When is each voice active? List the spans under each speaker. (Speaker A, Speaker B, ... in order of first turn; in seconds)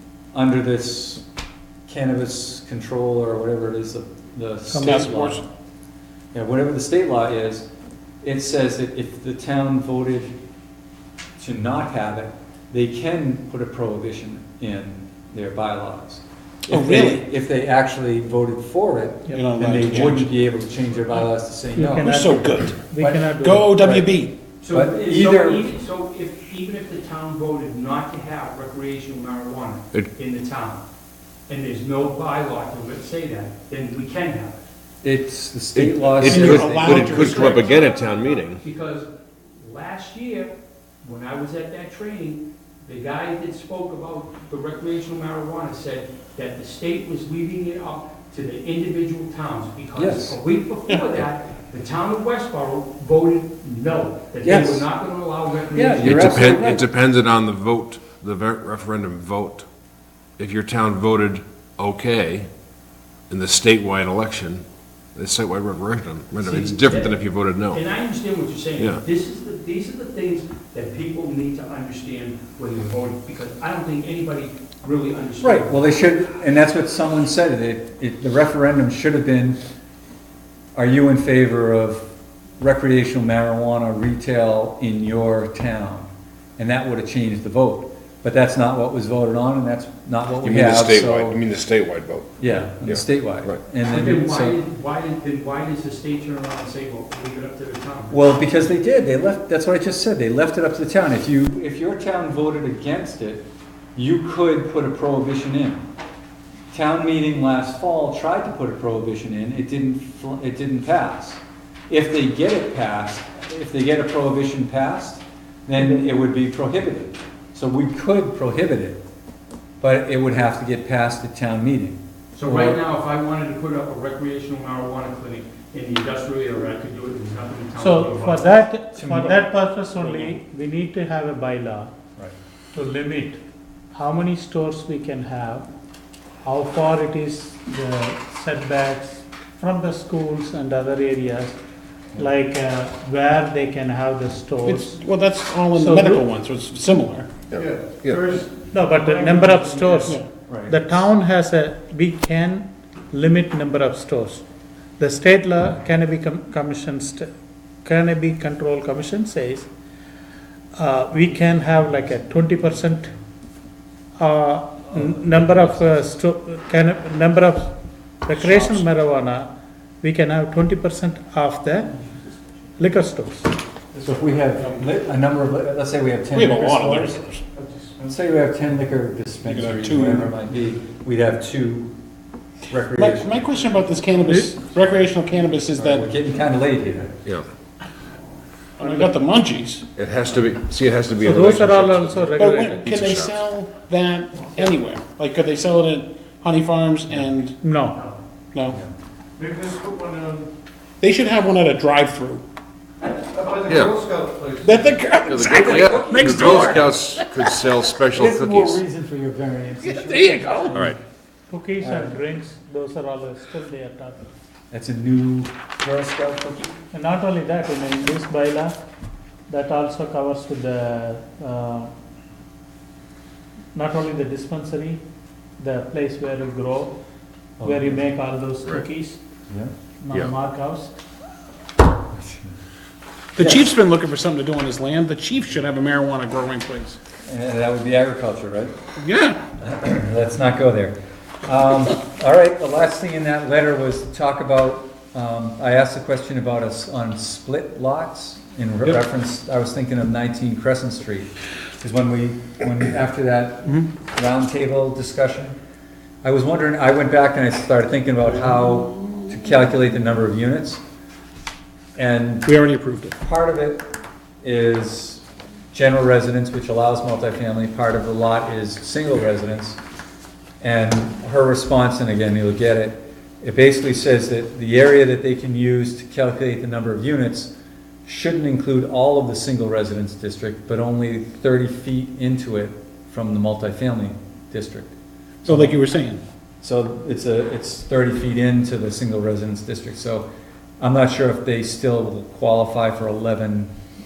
Speaker A: 0.3-1.2, 1.9-5.5, 6.3-7.7, 8.2-10.3, 11.4-22.2, 23.0-23.4, 24.7-25.6, 35.0-37.4, 50.0-50.4, 54.4-54.9, 55.7-56.9, 75.4-79.6, 80.8-82.1, 82.6-91.4, 92.4-94.6, 98.1-103.4, 104.0-105.8, 106.7-119.0, 119.8-122.8, 128.9-129.4, 150.5-150.9, 165.4-165.7, 174.0-177.3, 178.0-181.9, 182.7-183.8, 185.7-187.2, 198.7-198.9, 205.5-207.0, 208.1-211.0, 211.8-212.2, 214.7-216.7, 227.6-228.0, 232.1-232.6, 233.4-233.7, 237.3-238.7, 239.6-255.6, 256.2-260.8, 262.0-262.5, 263.2-263.9, 264.4-269.8, 270.6-277.5, 278.1-284.9, 285.4-285.8, 286.6-290.3, 290.8-293.7
Speaker B: 4.7-5.0, 19.3-20.1, 21.7-24.1, 127.8-131.9, 132.7-133.4, 133.9-135.7, 136.4-141.6, 142.2-145.0, 145.7-146.3, 148.7-154.4, 155.0-157.3, 157.8-159.7, 160.8-163.1, 164.2-171.9, 172.8-173.5, 184.2-184.6, 188.8-189.3, 191.2-192.9, 197.6-198.0, 211.5-214.3, 216.9-218.8, 219.5-221.9, 223.7-225.0, 225.6-227.0, 227.6-229.2, 230.0-230.9
Speaker C: 4.8-5.4, 16.7-17.3, 19.3-20.3, 22.0-24.4, 36.3-37.9, 144.6-147.3, 168.4-168.8, 176.3-177.4, 179.4-180.3, 183.0-186.1, 188.8-189.8, 192.3-197.6, 198.5-198.8, 201.0-202.4, 204.6-206.7, 233.4-237.0, 239.0-239.4, 262.4-263.1, 285.4-286.2
Speaker D: 24.6-30.8, 31.5-34.6, 36.5-56.6, 66.4-76.1, 93.9-98.3, 122.3-128.6, 130.0-130.4
Speaker E: 35.8-38.6, 56.0-59.7, 60.4-62.5, 63.3-64.6, 65.2-67.8, 68.8-69.0, 90.4-93.6, 147.5-148.4, 190.0-193.4, 203.7-204.0, 205.3-208.8, 210.2-211.0
Speaker F: 147.7-150.1, 199.4-200.5, 203.3-205.0